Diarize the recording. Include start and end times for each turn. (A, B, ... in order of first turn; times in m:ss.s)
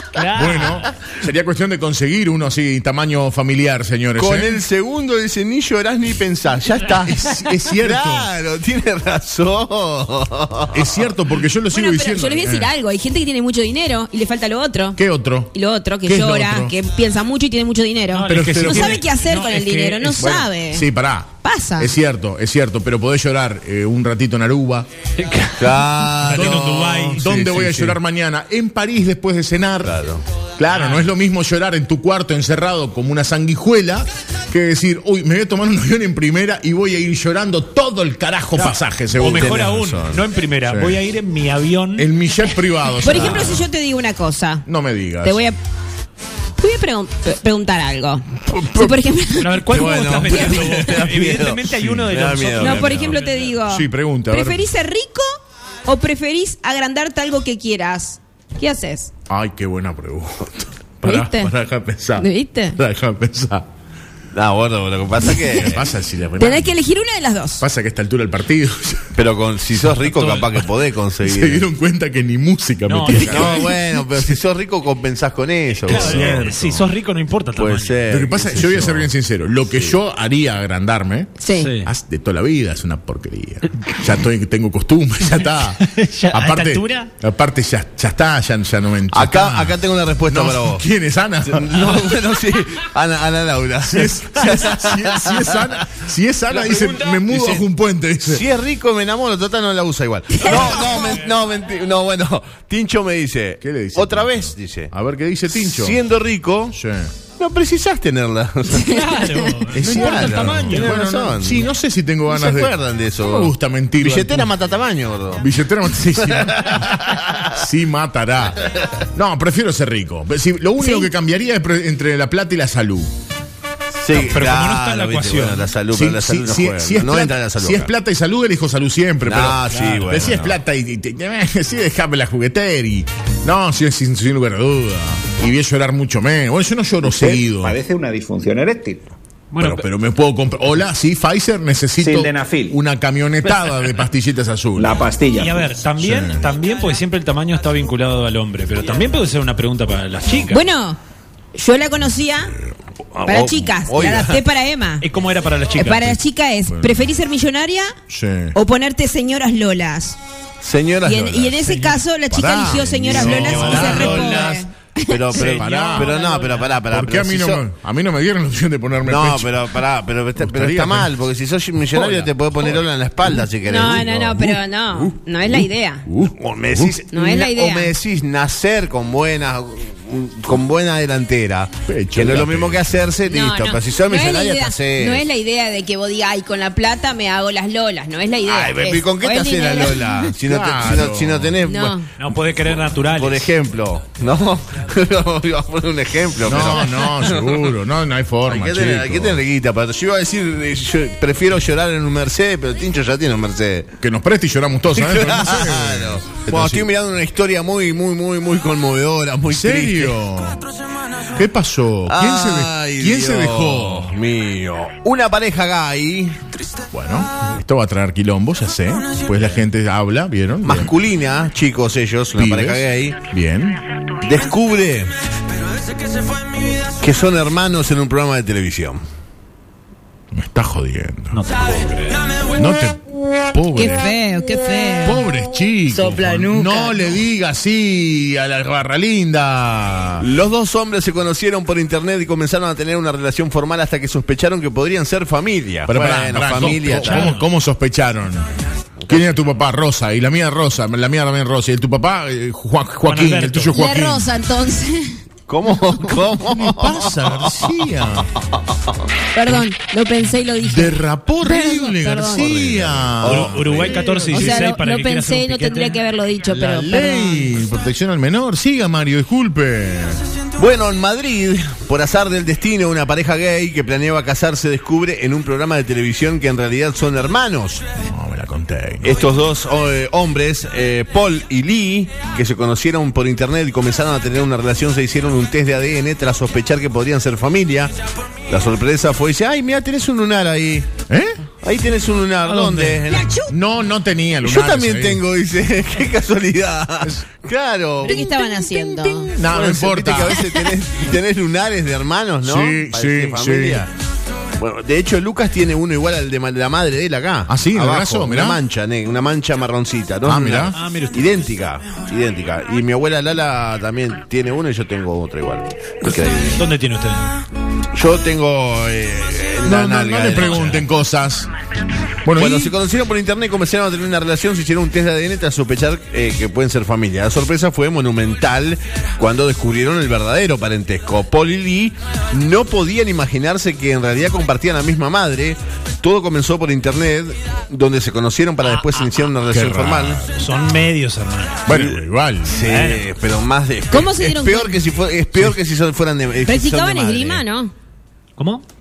0:00.1-0:00.9 A
0:00.3-0:04.6 B
0:04.2-0:11.0 C
0:07.0-0:08.3 B
0:10.7-0:12.7 B
0:11.7-0:15.0 D
0:15.0-0:16.7 B
0:15.5-0:20.8 D
0:18.1-0:20.3 A
0:18.3-0:19.0 B
0:20.2-0:24.9 B
0:21.4-0:21.9 D
0:25.2-0:27.8 A
0:25.6-0:28.0 C
0:26.3-0:29.9 B
0:29.8-0:30.2 C
0:30.6-0:39.9 B
0:30.7-0:31.1 A
0:38.5-0:42.1 A
0:39.2-0:40.2 C
0:40.6-0:41.0 B
0:42.0-0:43.7 B
0:43.0-0:43.6 A
0:43.0-0:44.7 D
0:44.6-0:45.4 B
0:45.2-0:45.6 D
0:46.6-0:50.8 D
0:48.4-0:49.0 B
0:49.4-0:53.5 A
0:49.7-0:53.1 C
0:52.6-0:55.2 D
0:53.6-0:54.7 B
0:55.8-0:59.1 D
0:59.3-1:03.6 B
1:01.0-1:01.5 D
1:02.2-1:02.8 D
1:04.3-1:05.8 C
1:05.6-1:06.8 B
1:06.4-1:07.6 D
1:07.6-1:09.2 B
1:09.1-1:11.7 C
1:10.1-1:10.5 A
1:11.2-1:14.4 B
1:12.9-1:13.7 A
1:13.1-1:16.5 C
1:15.8-1:18.0 A
1:15.8-1:16.9 B
1:17.6-1:19.1 C
1:18.1-1:25.8 B
1:19.7-1:20.0 C
1:21.4-1:21.7 D
1:21.5-1:21.9 A
1:25.8-1:27.1 A
1:26.3-1:32.0 B
1:29.1-1:30.8 C
1:31.4-1:35.8 C
1:33.8-1:38.4 B
1:36.5-1:37.6 C
1:38.2-1:44.9 C
1:40.4-1:41.3 A
1:43.6-1:46.0 B
1:45.5-1:46.8 C
1:46.7-1:47.1 B
1:47.4-1:51.7 C
1:48.8-1:50.9 A
1:49.7-1:54.5 B
1:52.3-1:57.5 C
1:55.4-1:58.6 B
1:59.1-2:03.1 B
2:00.8-2:01.1 D
2:04.0-2:07.9 C
2:04.1-2:05.7 A
2:05.9-2:17.8 B
2:09.2-2:10.6 C
2:09.7-2:10.2 A
2:17.0-2:19.2 E
2:19.5-2:19.8 A
2:19.6-2:25.0 B
2:22.0-2:22.8 E
2:24.8-2:25.7 E
2:25.3-2:30.6 A
2:26.0-2:26.4 B
2:30.5-2:31.0 D
2:31.5-2:32.6 D
2:33.1-2:34.4 C
2:33.2-2:35.1 D
2:35.0-2:36.2 A
2:35.7-2:37.9 D
2:36.7-2:37.1 B
2:38.1-2:38.6 B
2:38.5-2:40.2 D
2:40.6-2:41.6 C
2:41.0-2:45.6 D
2:41.6-2:42.0 A
2:42.3-2:44.5 B
2:43.1-2:47.6 C
2:43.1-2:44.5 A
2:45.3-2:46.1 B
2:45.4-2:46.8 A
2:46.9-2:49.8 B
2:49.0-2:54.2 C
2:50.4-2:51.2 B
2:51.9-2:57.0 B
2:53.6-2:56.1 D
2:56.2-3:05.2 C
2:57.1-2:57.9 D
3:01.8-3:02.9 B
3:03.3-3:10.3 D
3:08.4-3:17.7 C
3:10.4-3:11.6 B
3:11.6-3:12.1 D
3:12.1-3:13.5 A
3:16.4-3:19.4 B
3:18.5-3:23.9 C
3:24.0-3:26.9 B
3:24.9-3:30.2 C
3:29.5-3:30.6 B
3:31.3-3:34.1 B
3:32.1-3:36.5 C
3:36.9-3:40.9 B
3:39.4-3:39.6 C
3:40.6-3:43.2 C
3:42.4-3:43.8 B
3:44.2-3:45.1 C
3:46.9-3:49.0 C
3:50.3-3:51.4 B
3:51.3-3:52.4 A
3:52.5-3:53.0 B
3:53.5-3:54.1 B
3:53.7-3:55.2 D
3:54.9-4:00.2 B
3:55.9-3:56.9 D
4:00.2-4:07.4 C
4:05.8-4:08.4 B
4:06.9-4:07.4 A
4:09.0-4:09.4 C
4:09.1-4:14.3 B
4:13.0-4:13.7 A
4:13.7-4:15.2 D
4:15.5-4:18.6 C
4:16.4-4:18.3 B
4:19.3-4:22.5 D
4:20.6-4:24.0 B
4:22.4-4:24.6 C
4:23.2-4:26.0 A
4:24.3-4:27.6 D
4:26.5-4:30.2 B
4:30.6-4:37.8 C
4:38.0-4:39.2 B
4:39.0-4:47.9 C
4:48.5-4:50.9 C
4:51.1-4:51.4 B
4:51.6-4:53.3 C
4:52.4-4:53.0 A
4:53.1-4:53.5 D
4:53.5-4:55.2 B
4:54.4-4:58.2 C
4:58.0-4:59.3 D
4:58.0-5:00.4 B
4:59.4-5:03.9 C
5:00.4-5:00.7 D
5:02.4-5:03.9 B
5:04.6-5:16.6 C
5:07.5-5:08.6 B
5:10.2-5:10.8 B
5:10.7-5:11.3 A
5:16.5-5:17.3 A
5:17.9-5:20.8 C
5:19.6-5:21.5 B
5:22.2-5:22.7 B
5:22.4-5:40.3 C
5:38.6-5:39.2 A
5:39.5-5:40.3 B
5:40.3-5:41.7 A
5:41.6-5:42.5 B
5:41.7-5:47.4 C
5:42.6-5:43.2 A
5:43.9-5:44.8 D
5:46.4-5:47.7 D
5:48.4-5:48.6 A